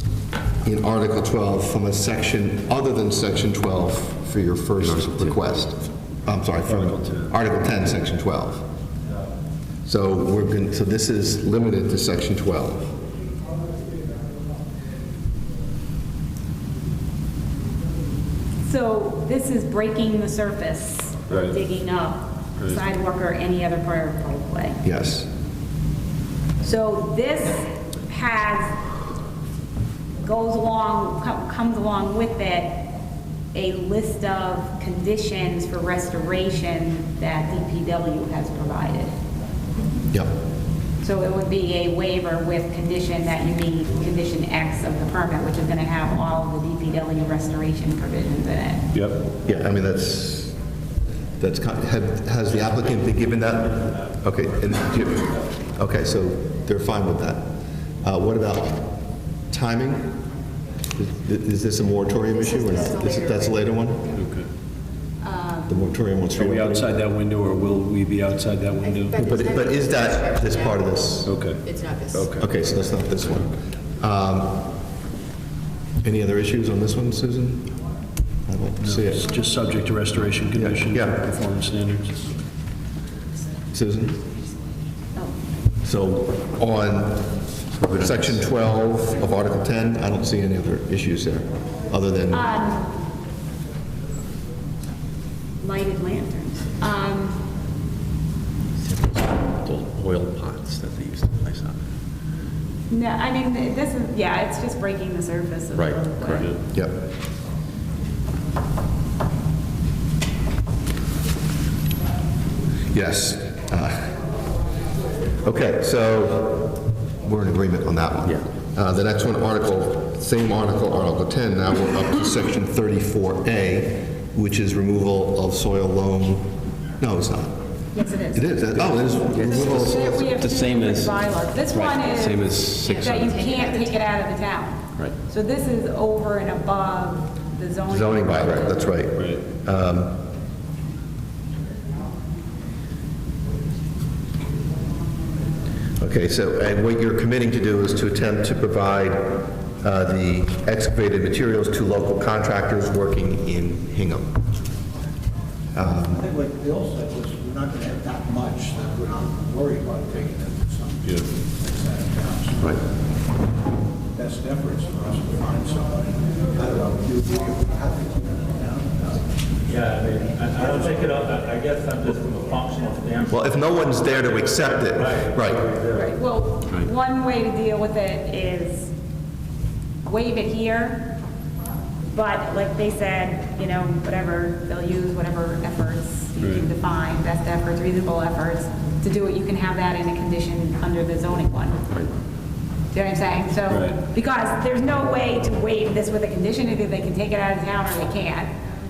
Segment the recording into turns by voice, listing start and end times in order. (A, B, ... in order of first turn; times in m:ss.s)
0:00.6-0:08.6 A
0:04.8-0:05.4 B
0:06.7-0:07.3 C
0:09.8-0:12.9 A
0:18.6-0:24.8 D
0:21.3-0:21.6 C
0:24.8-0:25.3 A
0:26.6-0:28.8 D
0:30.2-0:32.8 D
0:33.5-0:39.1 D
0:41.0-0:48.8 D
0:48.9-0:49.2 C
0:49.4-0:50.5 A
0:51.4-0:57.5 A
0:58.0-0:58.9 A
0:59.5-1:00.2 A
1:01.0-1:04.2 A
1:02.3-1:03.7 B
1:04.2-1:04.5 C
1:05.2-1:05.8 D
1:05.7-1:06.9 A
1:06.4-1:09.2 C
1:08.8-1:12.3 B
1:09.1-1:11.3 A
1:11.2-1:12.5 C
1:12.4-1:14.6 A
1:16.0-1:17.7 A
1:18.5-1:19.2 A
1:18.8-1:22.2 C
1:20.5-1:21.2 A
1:23.7-1:24.2 A
1:25.8-1:27.3 A
1:27.8-1:28.5 B
1:27.9-1:32.5 A
1:32.3-1:32.9 D
1:35.6-1:37.4 D
1:38.8-1:41.8 B
1:42.9-1:46.5 D
1:45.7-1:46.6 B
1:52.9-1:54.1 A
1:55.4-1:56.7 A
1:57.2-2:07.6 A
2:07.9-2:18.9 D
2:08.3-2:10.2 A
2:08.7-2:14.0 B
2:17.9-2:20.2 A
2:19.2-2:19.4 C
2:26.0-2:34.4 A
2:35.7-2:36.2 A
2:36.1-2:42.7 E
2:44.1-2:49.4 E
2:49.7-2:56.1 F
2:53.3-2:55.7 A
2:55.9-2:58.9 D
3:00.0-3:01.1 D
3:02.1-3:11.8 D
3:06.4-3:06.6 C
3:12.9-3:18.5 D
3:13.7-3:14.0 C